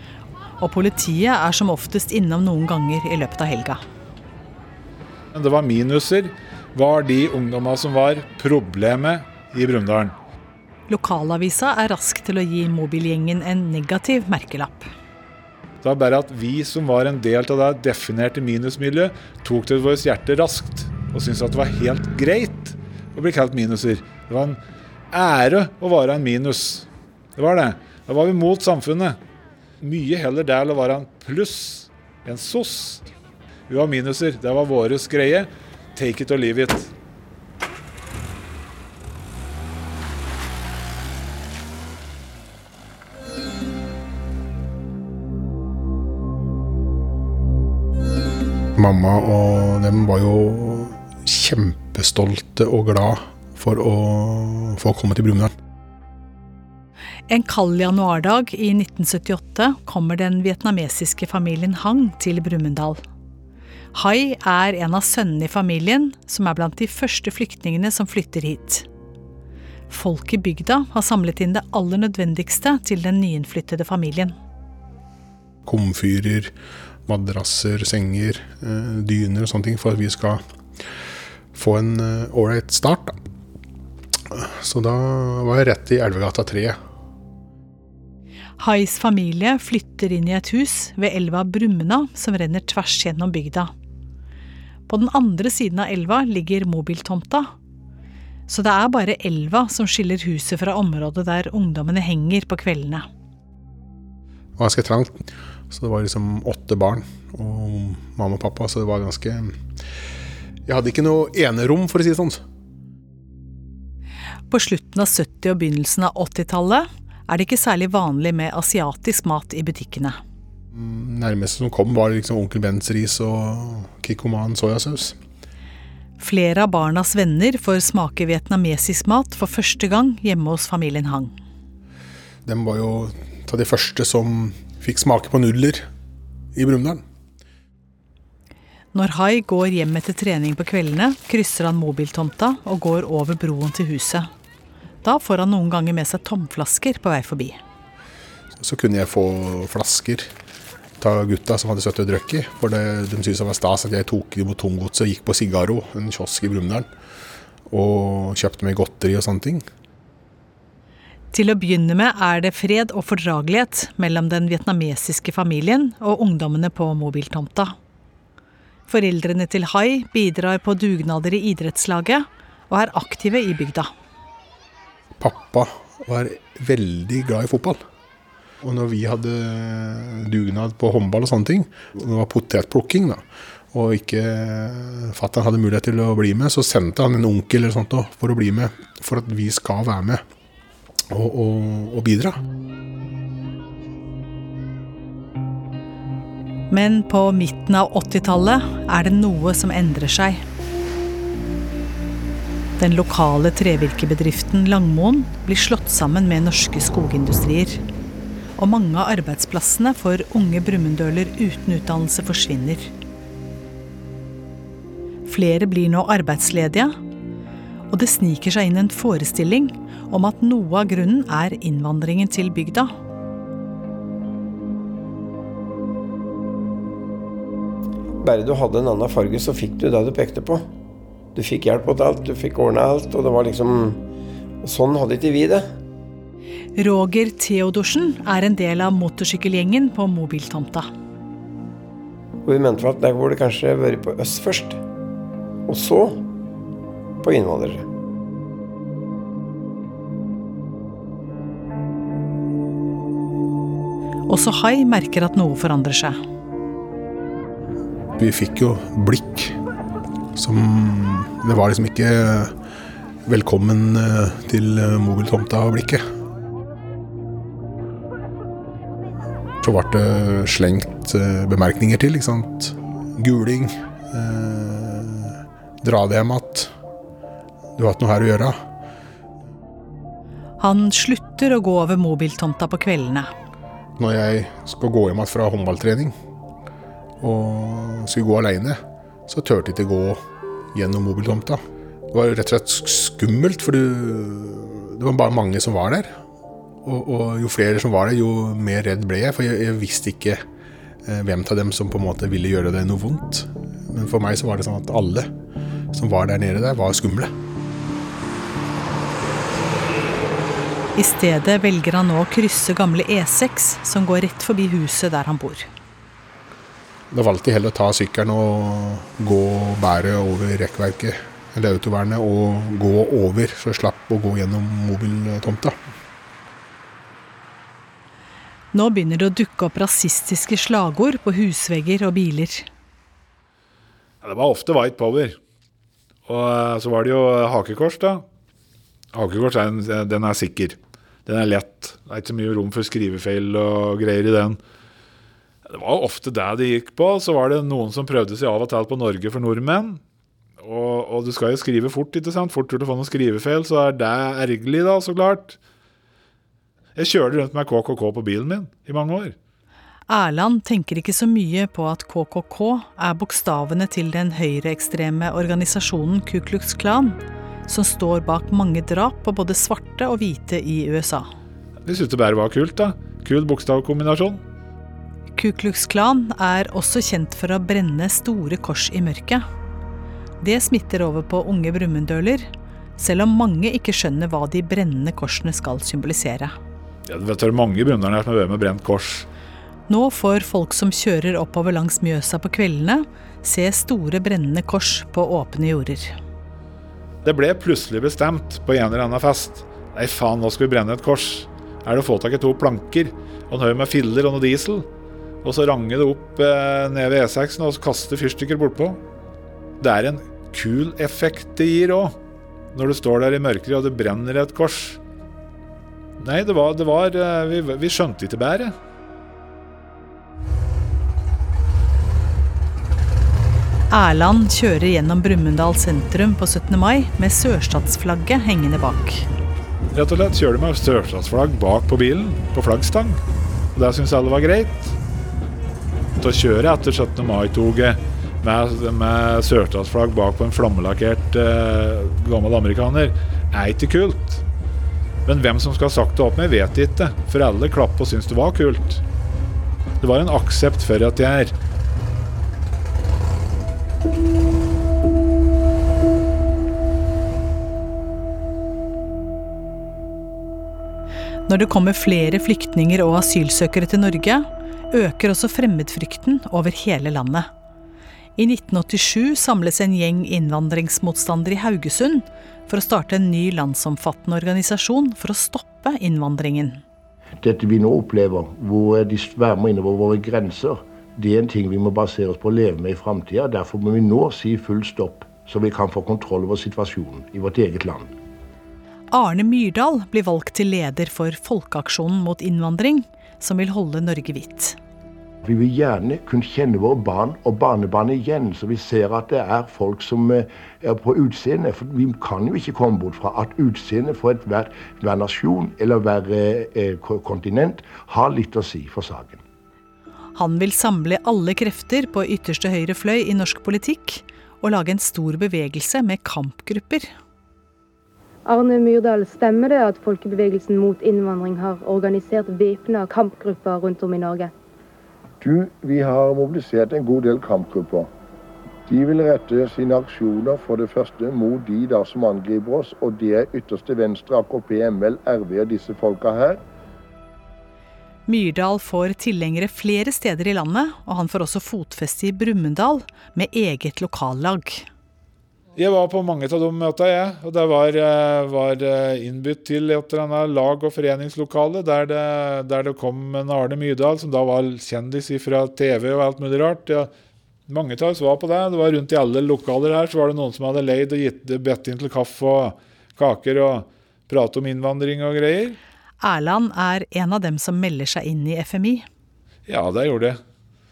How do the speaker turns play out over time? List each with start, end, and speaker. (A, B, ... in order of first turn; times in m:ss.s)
0:00.6-0:03.8 A
0:05.3-0:10.1 B
0:10.9-0:14.9 A
0:15.8-0:24.6 B
0:25.1-0:29.2 B
0:29.8-0:33.1 B
0:33.7-0:36.9 B
0:48.8-0:55.5 C
0:57.3-1:03.0 A
1:03.9-1:08.8 A
1:09.9-1:14.4 A
1:15.6-1:16.5 C
1:17.0-1:20.4 C
1:21.5-1:23.2 C
1:24.3-1:26.8 C
1:28.6-1:33.7 A
1:34.9-1:37.5 A
1:38.5-1:43.1 A
1:44.6-1:49.6 C
1:50.6-1:52.4 C
1:54.5-2:00.2 A
2:00.7-2:05.2 C
2:06.2-2:11.3 A
2:12.4-2:15.9 C
2:16.5-2:17.0 C
2:18.9-2:24.3 A
2:25.0-2:27.6 A
2:28.6-2:30.3 C
2:31.0-2:36.9 C
2:37.7-2:39.6 C
2:41.3-2:47.7 A
2:48.9-2:53.9 A
2:55.2-2:57.8 C
2:58.6-3:10.2 C
3:11.1-3:12.4 C
3:16.7-3:20.4 A
3:22.8-3:27.8 A
3:28.6-3:32.9 A
3:35.3-3:36.9 A
3:37.9-3:42.9 A
3:48.2-3:50.6 D
3:51.3-3:54.0 D
3:54.6-3:55.7 D
3:56.8-4:00.9 A
4:02.4-4:04.8 D
4:05.7-4:06.2 D
4:07.2-4:07.8 D
4:14.3-4:16.2 A
4:18.2-4:19.6 C
4:20.3-4:22.5 C
4:23.2-4:26.0 C
4:29.6-4:36.7 C
4:37.8-4:38.6 C
4:40.6-4:43.3 A
4:44.0-4:46.1 C
4:47.2-4:56.2 C
4:56.8-5:00.4 C
5:01.0-5:05.3 C
5:05.9-5:07.3 C
5:11.0-5:15.6 A
5:17.1-5:25.8 C
5:28.7-5:32.7 A
5:34.2-5:35.4 B
5:36.2-5:38.2 B
5:39.1-5:44.6 B
5:45.6-5:50.0 B
5:50.6-5:55.6 B
5:57.0-5:59.4 B
6:00.1-6:11.3 A
6:11.8-6:14.4 B
6:15.3-6:19.4 A
6:20.4-6:22.5 A
6:23.0-6:26.6 A
6:27.1-6:29.3 B
6:29.9-6:36.1 A
6:37.2-6:44.8 B
6:45.4-6:49.0 B
6:49.8-6:52.1 B
6:52.7-6:55.0 B
6:56.2-6:58.7 B
7:03.9-7:09.2 A
7:09.9-7:13.2 B
7:13.7-7:14.9 B
7:16.2-7:24.4 B
7:25.2-7:29.0 B
7:30.0-7:31.5 B
7:41.5-7:47.5 A
7:48.4-7:56.8 A
7:57.4-8:08.1 E
8:09.1-8:14.8 A
8:15.4-8:29.4 E
8:30.4-8:37.1 A
8:38.5-8:44.5 F
8:45.4-8:48.1 E
8:48.9-8:56.6 E
8:58.3-9:04.9 A
9:05.8-9:17.1 B
9:17.7-9:25.8 B
9:26.2-9:29.0 A
9:29.7-9:30.4 B